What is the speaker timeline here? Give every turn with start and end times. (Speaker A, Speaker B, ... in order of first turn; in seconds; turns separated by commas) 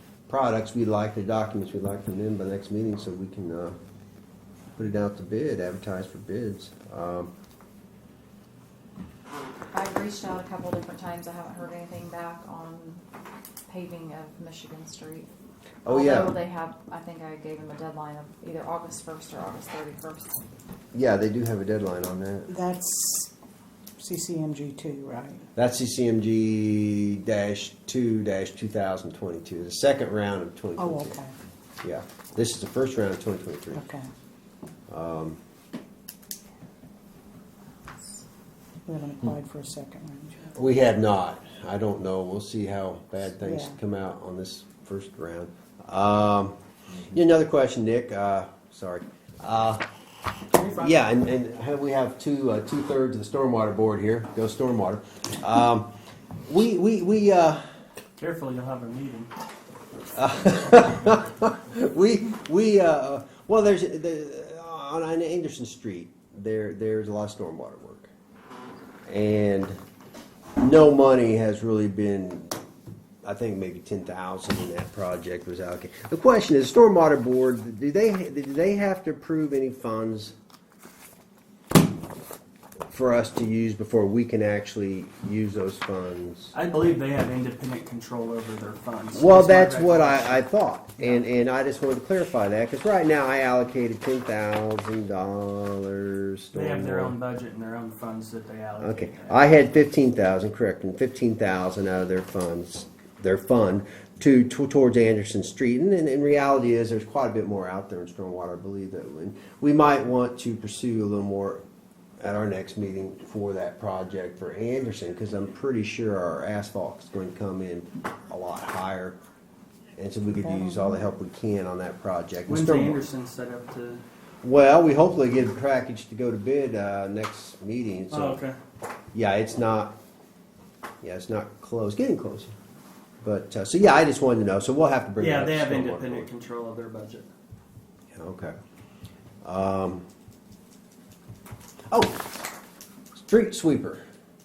Speaker A: 0.3-3.8, Speaker A: 4.8-7.3, Speaker B: 9.7-13.0, Speaker B: 13.7-15.3, Speaker A: 15.8-16.3, Speaker B: 15.9-20.4, Speaker A: 20.9-22.5, Speaker C: 22.5-23.3, Speaker C: 24.0-25.5, Speaker A: 25.6-31.2, Speaker C: 30.8-31.3, Speaker A: 31.8-33.8, Speaker C: 33.7-34.1, Speaker A: 34.9-35.4, Speaker B: 37.9-38.2, Speaker C: 38.9-40.5, Speaker A: 40.5-49.8, Speaker C: 43.4-43.8, Speaker D: 50.6-50.9, Speaker A: 50.6-55.9, Speaker A: 56.5-57.6, Speaker D: 58.2-59.3, Speaker A: 60.1-68.1, Speaker A: 69.1-69.8, Speaker A: 70.6-72.6, Speaker A: 73.2-80.3, Speaker A: 82.9-86.5, Speaker D: 86.5-90.4, Speaker A: 89.1-97.2, Speaker D: 96.5-99.4, Speaker A: 98.8-111.6, Speaker A: 112.2-119.2, Speaker A: 120.0-123.0, Speaker C: 120.4-121.0, Speaker D: 122.5-124.0, Speaker A: 124.4-128.4, Speaker D: 128.1-128.6, Speaker A: 129.1-129.9, Speaker A: 131.0-132.6, Speaker A: 133.2-136.3, Speaker D: 135.2-137.3, Speaker A: 138.1-138.5, Speaker A: 139.4-140.1, Speaker A: 141.9-142.4, Speaker A: 143.1-144.0